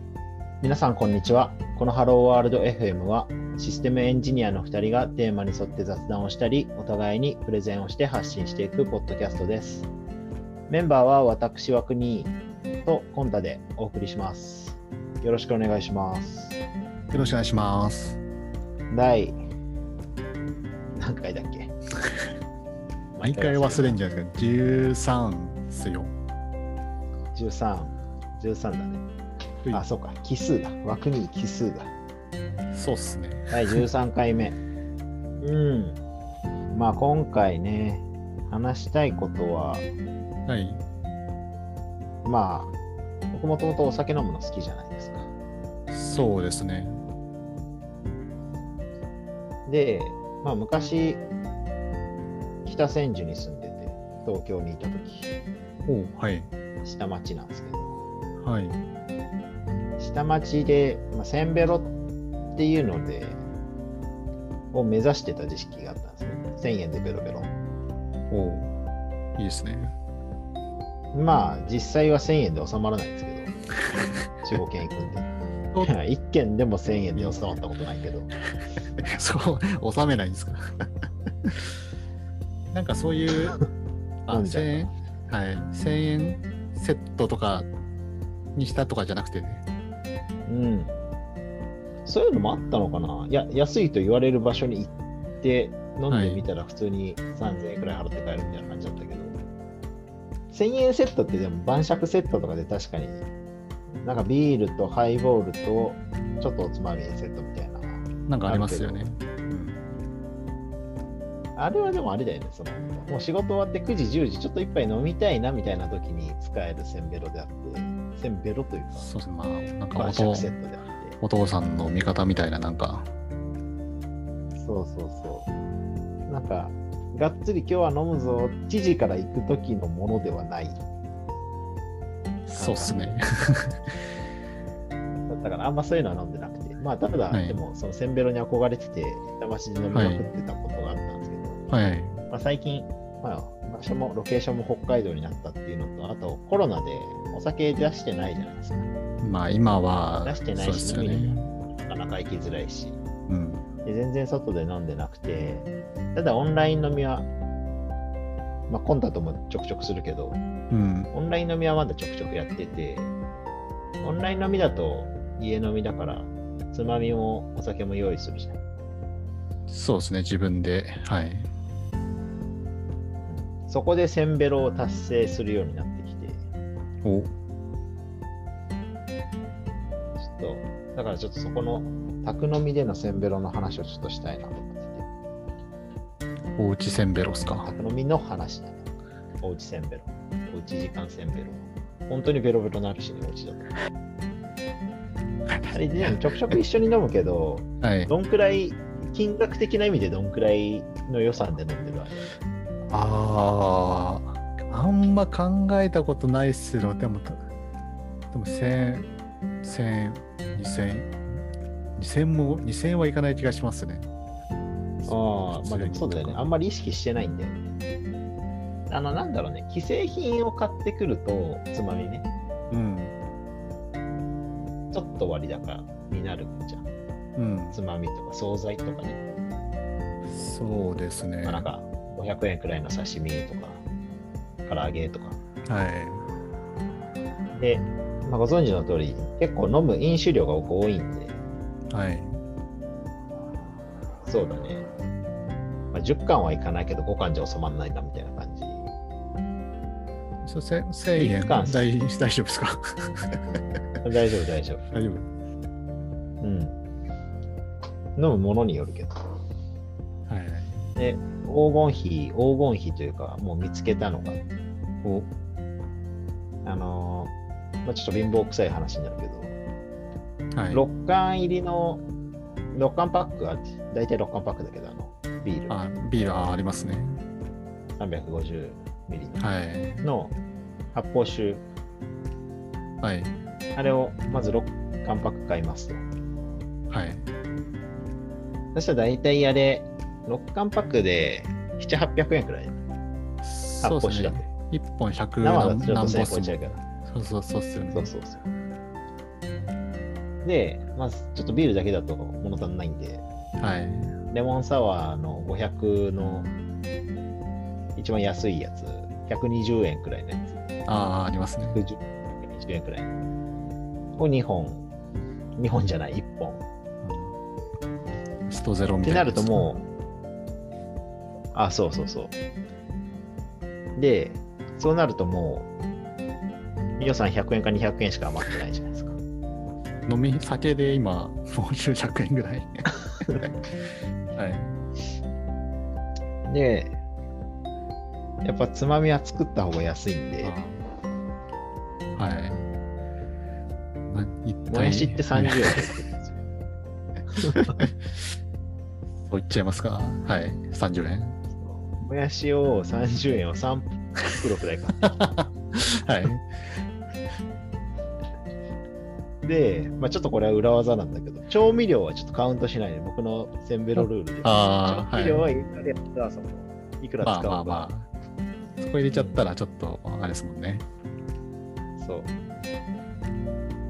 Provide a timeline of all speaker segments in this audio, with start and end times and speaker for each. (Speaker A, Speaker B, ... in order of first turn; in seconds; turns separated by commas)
Speaker A: 0.6-9.9, Speaker A: 10.7-12.3, Speaker A: 12.9-16.6, Speaker B: 17.1-18.2, Speaker A: 18.9-19.4, Speaker A: 21.0-21.7, Speaker A: 23.2-24.0, Speaker B: 23.2-26.1, Speaker A: 27.4-29.0, Speaker A: 29.7-31.9, Speaker B: 32.7-33.8, Speaker A: 33.5-34.6, Speaker A: 35.4-36.0, Speaker A: 36.7-39.9, Speaker B: 40.5-40.8, Speaker A: 42.2-42.7, Speaker A: 43.3-45.3, Speaker B: 45.9-47.0, Speaker A: 49.7-51.2, Speaker A: 52.7-55.3, Speaker B: 55.9-56.5, Speaker A: 56.8-58.0, Speaker B: 58.4-58.8, Speaker A: 60.0-61.9, Speaker A: 62.5-63.4, Speaker A: 64.7-67.5, Speaker B: 68.3-68.7, Speaker B: 69.4-69.9, Speaker A: 71.1-73.5, Speaker A: 74.4-75.3, Speaker A: 75.8-78.3, Speaker B: 78.8-80.6, Speaker B: 82.7-83.6, Speaker B: 84.2-87.7, Speaker A: 84.3-84.9, Speaker B: 88.6-89.6, Speaker A: 90.5-91.0, Speaker A: 92.0-99.4, Speaker B: 96.1-96.4, Speaker A: 100.5-103.3, Speaker A: 104.0-109.0, Speaker B: 108.3-109.8, Speaker A: 111.6-119.1, Speaker B: 118.9-120.5, Speaker A: 120.0-121.2, Speaker B: 121.2-123.1, Speaker A: 124.5-125.5, Speaker A: 126.3-130.8, Speaker B: 132.5-133.9, Speaker A: 132.6-133.2, Speaker A: 135.3-141.6, Speaker B: 137.3-137.6, Speaker B: 139.9-140.2, Speaker B: 141.7-142.2, Speaker A: 142.3-148.9, Speaker B: 149.2-151.5, Speaker A: 150.2-153.0, Speaker B: 153.3-153.6, Speaker A: 153.8-157.3, Speaker A: 158.7-160.4, Speaker B: 160.7-161.1, Speaker A: 161.1-163.1, Speaker A: 164.0-168.6, Speaker B: 169.7-171.5, Speaker A: 173.2-176.4, Speaker B: 177.0-177.3, Speaker A: 180.2-185.1, Speaker B: 186.6-187.7, Speaker A: 187.6-188.8, Speaker A: 189.4-193.7, Speaker B: 195.5-196.5, Speaker A: 195.7-202.3, Speaker B: 197.8-198.1, Speaker B: 202.9-207.4, Speaker B: 208.3-209.1, Speaker B: 209.6-211.2, Speaker B: 212.0-214.1, Speaker A: 215.0-217.7, Speaker B: 215.1-216.4, Speaker A: 218.9-222.3, Speaker B: 222.7-223.2, Speaker A: 224.9-226.9, Speaker B: 227.4-227.8, Speaker A: 227.7-229.2, Speaker B: 230.3-231.7, Speaker A: 231.4-233.8, Speaker A: 234.7-235.4, Speaker B: 235.7-236.3, Speaker A: 237.6-241.4, Speaker B: 241.9-242.4, Speaker A: 244.3-244.8, Speaker A: 245.9-248.9, Speaker B: 250.4-253.4, Speaker A: 251.2-251.9, Speaker A: 254.0-254.8, Speaker B: 254.9-255.3, Speaker A: 256.4-256.8, Speaker A: 258.2-259.2, Speaker B: 260.3-260.9, Speaker A: 261.0-264.4, Speaker B: 265.0-265.3, Speaker A: 266.6-267.3, Speaker A: 267.9-269.6, Speaker B: 270.6-270.9, Speaker A: 270.7-272.0, Speaker A: 272.7-275.8, Speaker B: 275.7-277.2, Speaker A: 278.0-279.4, Speaker B: 279.4-280.1, Speaker A: 280.0-280.3, Speaker A: 280.9-281.6, Speaker B: 283.0-283.4, Speaker A: 283.8-286.0, Speaker B: 286.9-287.3, Speaker A: 288.8-292.8, Speaker B: 293.4-298.1, Speaker A: 293.8-294.5, Speaker A: 295.4-296.8, Speaker A: 297.9-298.5, Speaker A: 300.4-303.2, Speaker B: 303.6-304.2, Speaker A: 304.3-306.5, Speaker A: 308.0-310.6, Speaker B: 310.9-311.8, Speaker A: 311.7-313.1, Speaker A: 314.2-314.8, Speaker A: 315.6-316.6, Speaker B: 317.0-317.4, Speaker B: 318.5-319.7, Speaker A: 319.0-319.9, Speaker A: 321.5-322.4, Speaker A: 324.0-325.7, Speaker A: 327.0-329.2, Speaker B: 330.1-333.6, Speaker B: 334.4-334.7, Speaker A: 336.5-337.0, Speaker A: 338.4-340.6, Speaker B: 340.4-340.8, Speaker B: 342.2-342.6, Speaker B: 344.1-345.9, Speaker A: 344.7-346.4, Speaker A: 347.4-347.8, Speaker B: 347.6-347.9, Speaker B: 349.2-351.4, Speaker A: 351.6-355.2, Speaker B: 355.0-356.8, Speaker A: 359.4-367.9, Speaker B: 364.0-365.5, Speaker B: 367.2-368.1, Speaker B: 368.8-370.9, Speaker A: 369.1-369.4, Speaker A: 372.0-372.3